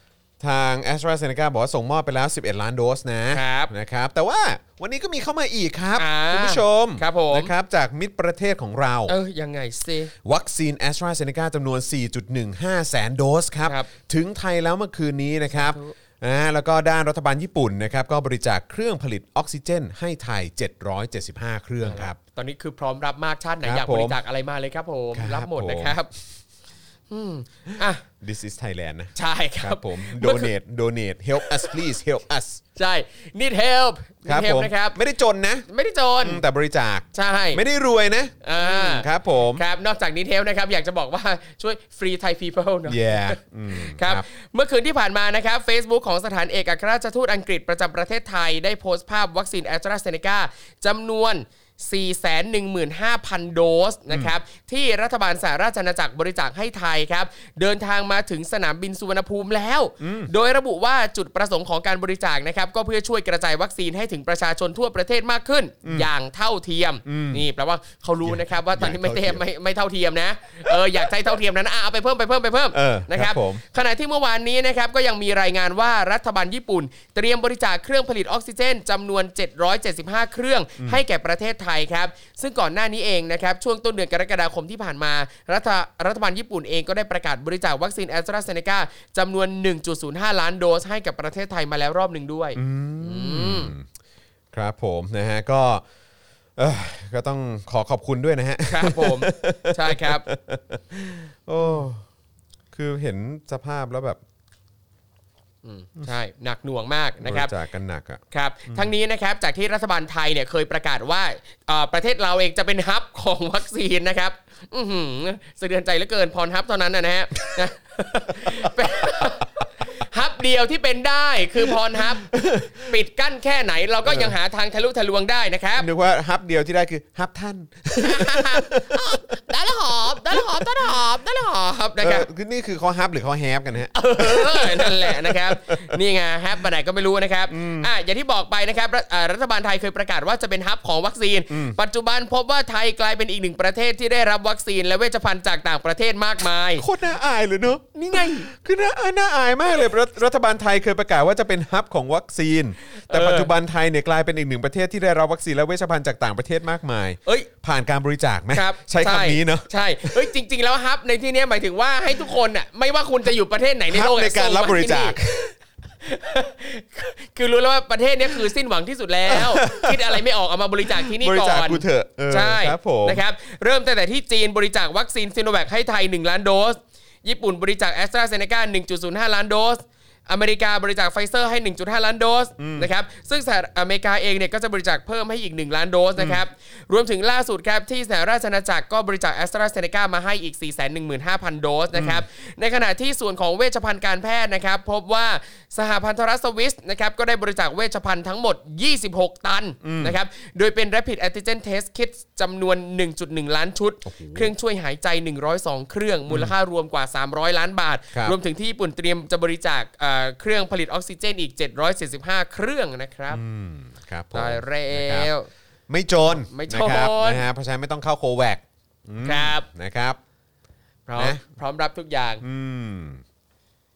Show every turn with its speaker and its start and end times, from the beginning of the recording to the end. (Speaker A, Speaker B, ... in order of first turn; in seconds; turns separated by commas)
Speaker A: 0.4-9.1, Speaker B: 3.3-3.7, Speaker B: 6.0-7.5, Speaker B: 9.1-10.1, Speaker A: 10.2-22.2, Speaker B: 15.5-15.9, Speaker B: 21.8-26.1, Speaker A: 23.6-24.2, Speaker A: 25.1-26.0, Speaker B: 27.1-28.0, Speaker A: 27.7-32.6, Speaker B: 29.1-30.5, Speaker B: 31.4-31.8, Speaker B: 32.8-35.0, Speaker A: 34.2-35.7, Speaker B: 35.7-36.4, Speaker A: 36.2-39.6, Speaker B: 37.1-37.6, Speaker B: 38.4-93.7, Speaker A: 42.9-44.2, Speaker A: 60.0-60.3, Speaker A: 65.8-66.1, Speaker A: 67.1-67.4, Speaker A: 68.2-69.4, Speaker A: 70.7-71.1, Speaker A: 72.7-73.6, Speaker A: 92.6-93.9, Speaker A: 94.5-95.8, Speaker A: 96.6-102.0, Speaker B: 98.7-100.3, Speaker A: 102.7-104.2, Speaker B: 105.6-107.5, Speaker A: 107.2-108.9, Speaker B: 108.3-125.9, Speaker A: 118.4-119.3, Speaker A: 122.0-122.9, Speaker A: 124.0-124.4, Speaker A: 125.8-129.2, Speaker B: 128.0-132.3, Speaker A: 130.3-130.9, Speaker A: 132.0-136.0, Speaker B: 133.9-146.9, Speaker A: 137.5-137.9, Speaker A: 141.5-141.8, Speaker A: 146.8-160.3, Speaker B: 147.9-148.5, Speaker B: 152.9-153.5, Speaker B: 158.5-165.2, Speaker A: 163.9-165.6, Speaker B: 166.0-213.4, Speaker A: 169.3-170.2, Speaker A: 170.9-173.2, Speaker A: 182.6-182.9, Speaker A: 191.9-192.2, Speaker A: 199.8-200.2, Speaker A: 204.1-204.5, Speaker A: 206.3-206.5, Speaker A: 213.3-215.3, Speaker B: 214.3-215.5, Speaker A: 215.9-220.2, Speaker B: 216.3-217.4, Speaker B: 219.2-219.7, Speaker B: 221.1-222.4, Speaker A: 221.2-221.4, Speaker A: 222.4-223.2